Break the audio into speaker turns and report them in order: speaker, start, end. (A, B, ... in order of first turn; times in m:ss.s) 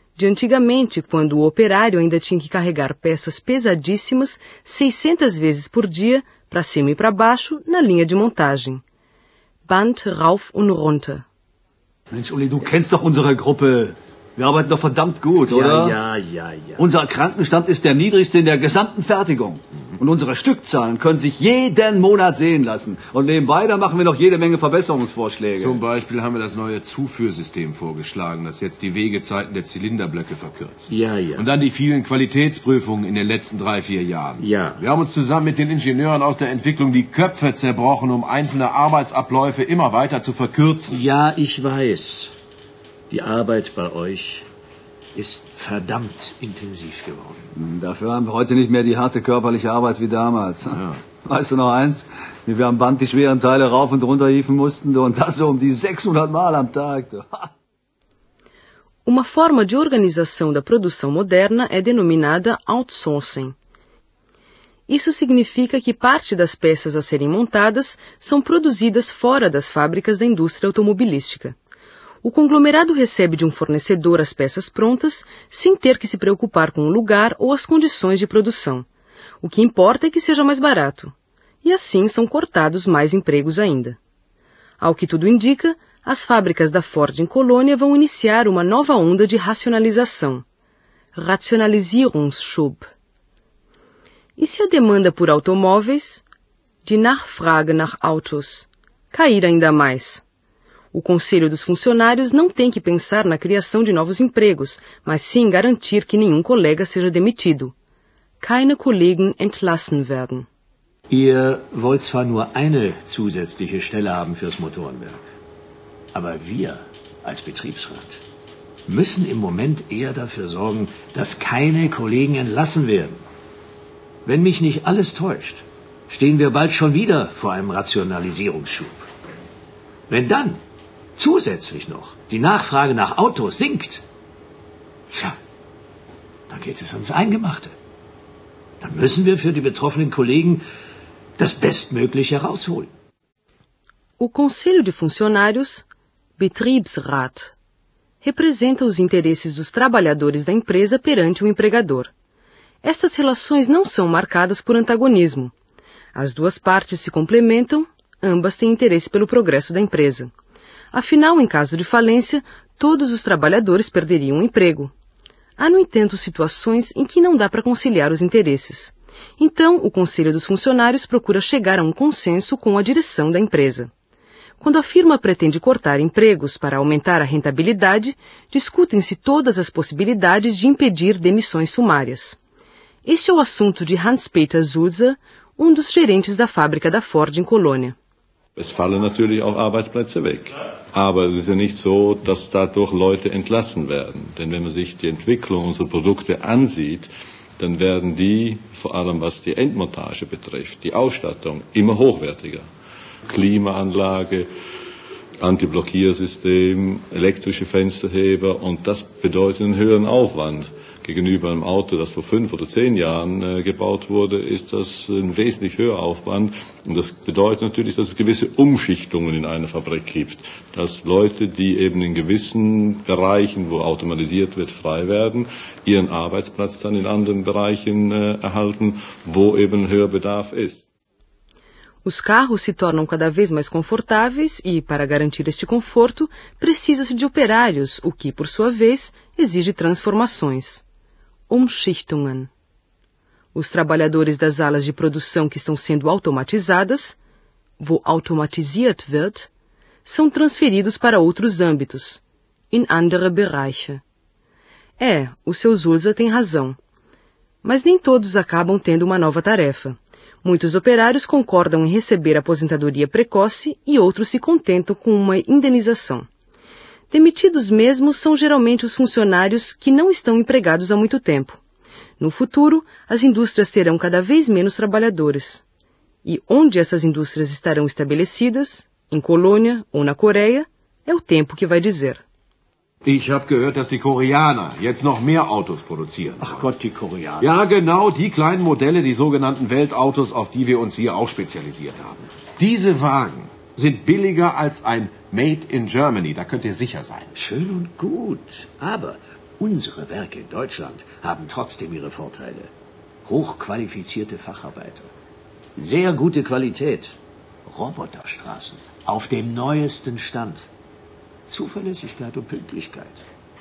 0:00.2-0:08.8 A
0:09.7-0:11.2 A
0:12.1-0:16.0 B
0:15.5-0:17.0 C
0:16.8-0:25.8 B
0:25.6-0:41.0 D
0:30.9-0:31.5 C
0:34.4-0:34.8 C
0:40.9-0:42.3 C
0:43.1-0:44.5 C
0:45.2-0:47.5 C
0:47.6-0:57.5 B
0:59.0-1:03.6 A
1:04.9-1:11.6 A
1:12.2-1:18.9 A
1:19.4-1:24.0 A
1:24.8-1:30.4 A
1:31.2-1:32.9 A
1:34.4-1:36.2 A
1:36.8-1:40.2 A
1:40.9-1:47.7 A
1:48.4-1:50.5 A
1:51.1-1:55.2 C
1:56.1-1:58.2 C
1:58.9-2:03.2 C
2:04.2-2:09.1 C
2:10.1-2:10.6 C
2:11.2-2:14.0 C
2:15.1-2:15.4 C
2:16.5-2:17.8 C
2:18.8-2:20.6 C
2:21.4-2:22.9 C
2:24.2-2:25.9 A
2:26.4-2:27.6 A
2:28.2-2:32.1 A
2:32.8-2:35.5 A
2:36.1-2:40.3 A
2:40.9-2:44.9 A
2:45.6-2:53.9 A
2:54.6-3:02.4 A
3:03.0-3:08.0 A
3:08.6-3:22.7 E
3:23.3-3:24.5 E
3:25.4-3:50.8 E
3:52.0-4:00.8 A
4:01.5-4:02.5 A
4:03.5-4:07.2 A
4:07.8-4:09.5 A
4:10.0-4:14.0 A
4:15.0-4:16.8 A
4:17.6-4:26.3 A
4:27.1-4:31.6 A
4:32.2-4:35.6 A
4:36.2-4:42.2 A
4:43.0-4:46.7 D
4:46.4-4:47.5 C
4:47.4-4:57.4 D
4:57.4-5:02.7 C
5:03.2-5:05.1 C
5:05.8-5:07.2 C
5:07.7-5:10.7 C
5:11.5-5:13.2 C